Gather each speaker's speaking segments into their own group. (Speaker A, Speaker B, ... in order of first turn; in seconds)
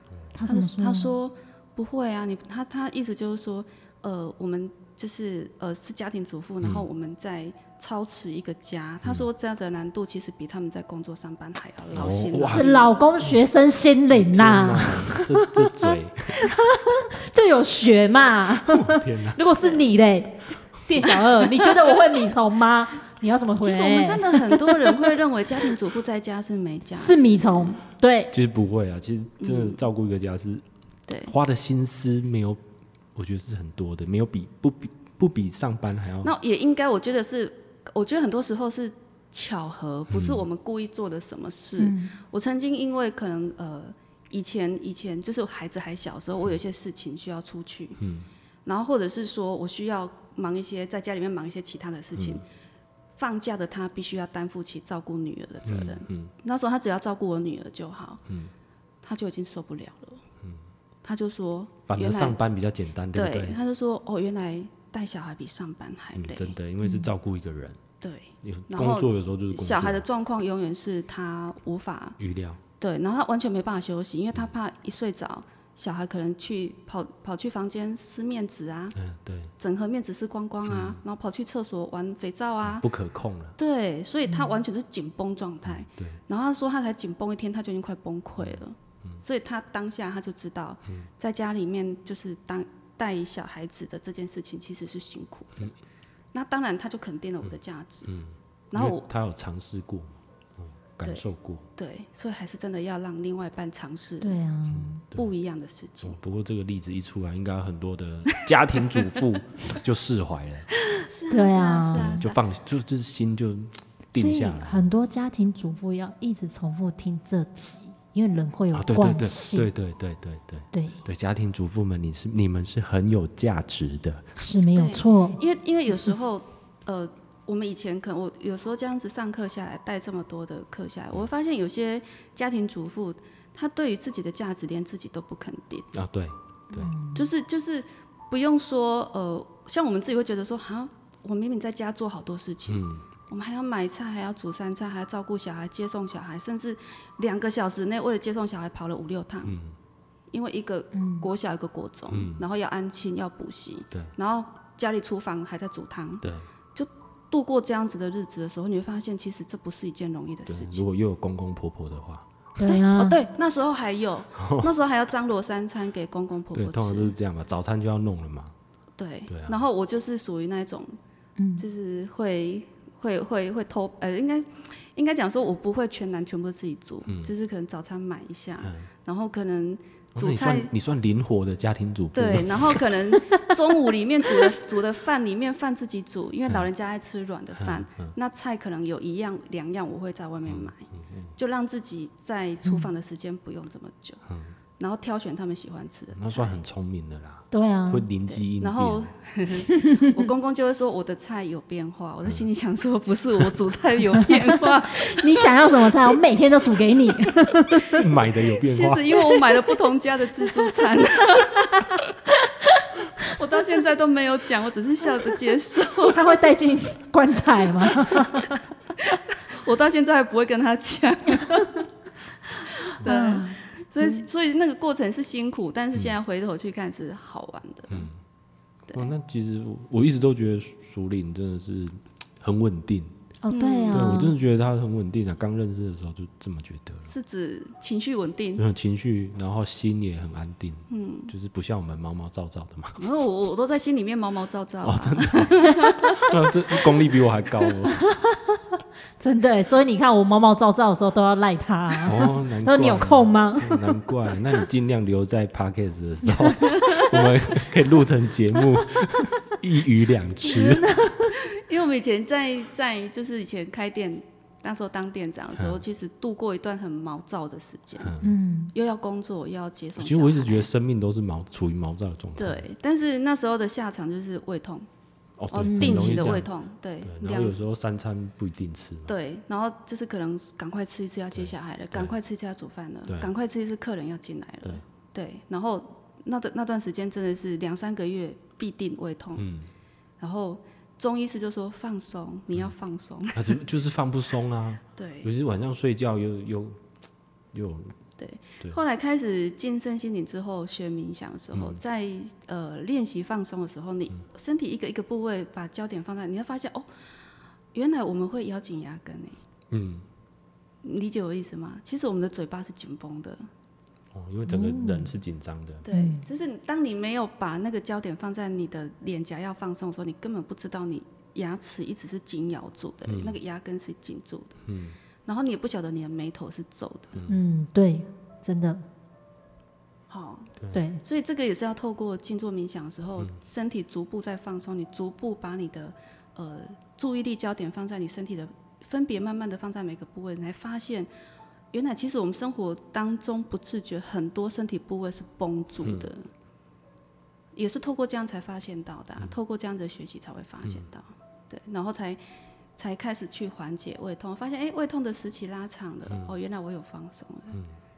Speaker A: 0.3-1.1, 12.5-25.1, 26.9-28.3, 41.8-42.1, 66.8-67.1, 104.2-105.0, 111.3-112.2, 114.1-119.7, 120.7-121.0, 124.4-125.4, 136.7-137.3, 150.9-151.3, 162.6-163.2, 171.4-171.6, 197.5-198.1, 199.7-200.2, 204.2-208.0, 211.4-213.3, 216.1-218.6, 223.0-224.2, 233.4-234.3, 248.0-253.9, 260.4-261.3, 268.2-268.7, 275.6-276.3, 314.5-315.1, 315.9-316.2, 327.3-328.8, 330.7-331.0
Speaker B: 0.4-13.1, 21.2-21.7, 23.6-27.8, 29.4-29.8, 31.1-31.3, 36.2-48.0, 48.6-52.4, 53.2-58.2, 59.0-60.2, 61.0-62.4, 63.1-66.6, 68.0-72.2, 72.8-79.0, 79.6-82.9, 83.6-95.7, 96.3-98.2, 98.7-99.1, 101.0-104.4, 105.1-106.2, 108.3-109.2, 110.9-112.4, 124.7-135.9, 137.1-149.6, 150.3-160.8, 162.6-167.1, 169.0-170.9, 171.6-180.7, 182.1-194.2, 194.8-196.6, 198.3-205.9, 208.6-211.9, 213.2-216.4, 217.8-221.8, 222.5-228.1, 233.5-234.2, 237.1-238.6, 240.9-241.3, 243.0-246.3, 256.7-257.1, 261.4-268.1, 268.7-270.7, 272.4-274.9, 275.5-277.6, 279.1-289.5, 290.2-293.6, 294.9-295.3, 298.2-306.9, 307.7-309.4, 310.8-313.4, 315.9-324.6, 325.2-327.2, 330.1-341.1, 341.7-346.2, 347.5-352.2, 352.8-357.6
Speaker C: 11.9-12.7, 14.1-16.4, 18.7-19.4, 28.3-30.6, 31.2-32.6, 33.1-36.3, 40.1-40.5, 48.0-48.3, 52.1-52.4, 55.6-56.3, 61.9-63.6, 66.2-67.8, 68.4-70.0, 72.2-72.6, 78.9-79.5, 80.7-81.0, 82.6-83.5, 85.7-86.2, 88.4-89.2, 98.1-101.6, 104.7-105.3, 106.0-110.7, 111.9-114.9, 118.7-124.4, 135.9-136.9, 142.7-143.0, 149.4-149.7, 152.1-152.4, 160.5-162.3, 164.3-164.7, 166.5-168.5, 169.3-169.6, 177.1-177.3, 180.1-182.8, 187.5-188.1, 190.4-191.3, 194.3-194.5, 196.1-199.1, 207.7-209.1, 227.9-228.2, 228.9-233.1, 233.9-237.1, 238.6-243.0, 244.8-248.0, 252.0-261.1, 265.5-265.8, 268.0-268.3, 269.9-272.6, 275.4-276.5, 277.0-279.1, 281.3-282.1, 289.4-289.7, 293.3-296.8, 297.5-298.0, 301.5-301.8, 309.7-310.1, 314.1-315.9, 323.1-323.4, 324.6-324.9, 345.8-346.1, 356.1-356.3